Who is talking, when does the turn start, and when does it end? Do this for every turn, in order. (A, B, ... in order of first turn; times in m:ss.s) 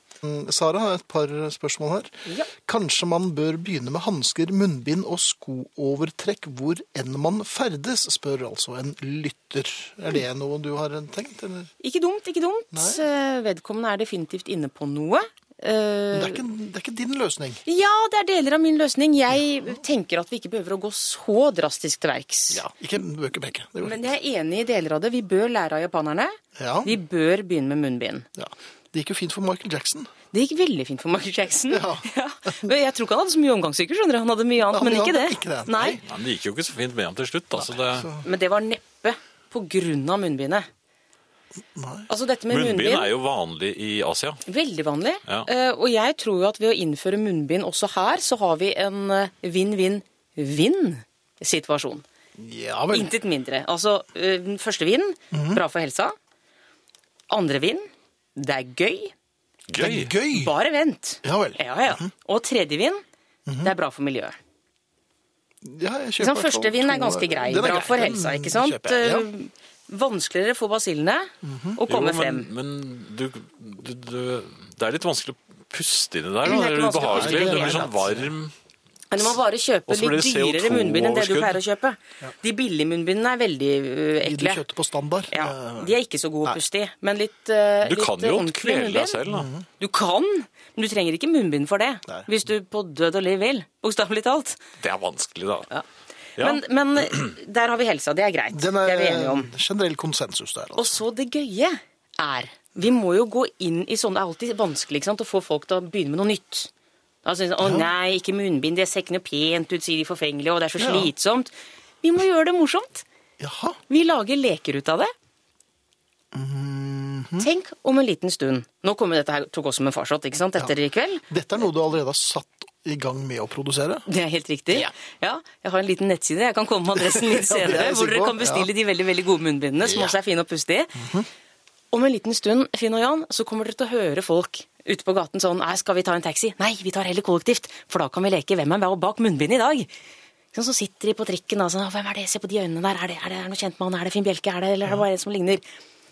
0:00.2-0:11.7 A
0:11.8-0:16.4 B
0:12.7-0:13.0 A
0:16.1-0:17.6 A
0:17.6-0:22.6 B
0:22.5-0:24.1 A
0:23.8-0:28.2 B
0:26.6-0:26.9 A
0:28.4-0:30.1 A
0:30.3-0:36.0 B
0:31.7-0:32.0 A
0:34.7-0:36.0 A
0:36.0-0:38.1 C
0:37.8-0:38.2 A
0:38.2-0:40.6 B
0:41.7-0:42.1 A
0:42.1-0:43.1 B
0:42.5-0:44.4 C
0:44.5-0:52.0 B
0:52.4-0:53.1 A
0:52.9-0:56.1 B
0:55.3-0:55.6 A
0:57.3-0:59.1 B
0:59.7-1:00.1 C
0:59.8-1:00.5 A
1:00.3-1:03.0 B
1:01.2-1:02.1 A
1:03.5-1:03.7 A
1:03.6-1:04.4 B
1:05.6-1:09.3 A
1:06.2-1:12.5 B
1:11.4-1:11.8 A
1:11.9-1:18.5 C
1:16.4-1:18.0 B
1:17.0-1:18.2 A
1:19.1-1:24.6 B
1:19.9-1:21.6 C
1:24.2-1:25.9 A
1:25.3-1:29.2 B
1:27.8-1:29.5 C
1:29.3-1:29.6 A
1:29.8-1:34.6 B
1:34.8-1:35.7 C
1:36.4-1:36.6 C
1:36.4-1:39.5 B
1:38.5-1:41.0 A
1:40.8-1:46.7 B
1:47.2-1:51.5 B
1:47.6-1:47.9 A
1:50.8-1:51.1 A
1:52.0-1:53.0 B
1:53.4-1:53.8 A
1:53.9-1:55.1 B
1:56.3-1:57.5 A
1:57.4-2:01.2 B
2:01.3-2:04.0 A
2:04.1-2:11.0 B
2:07.0-2:08.7 A
2:09.9-2:10.1 A
2:11.0-2:11.3 A
2:11.9-2:19.9 B
2:20.5-2:25.6 B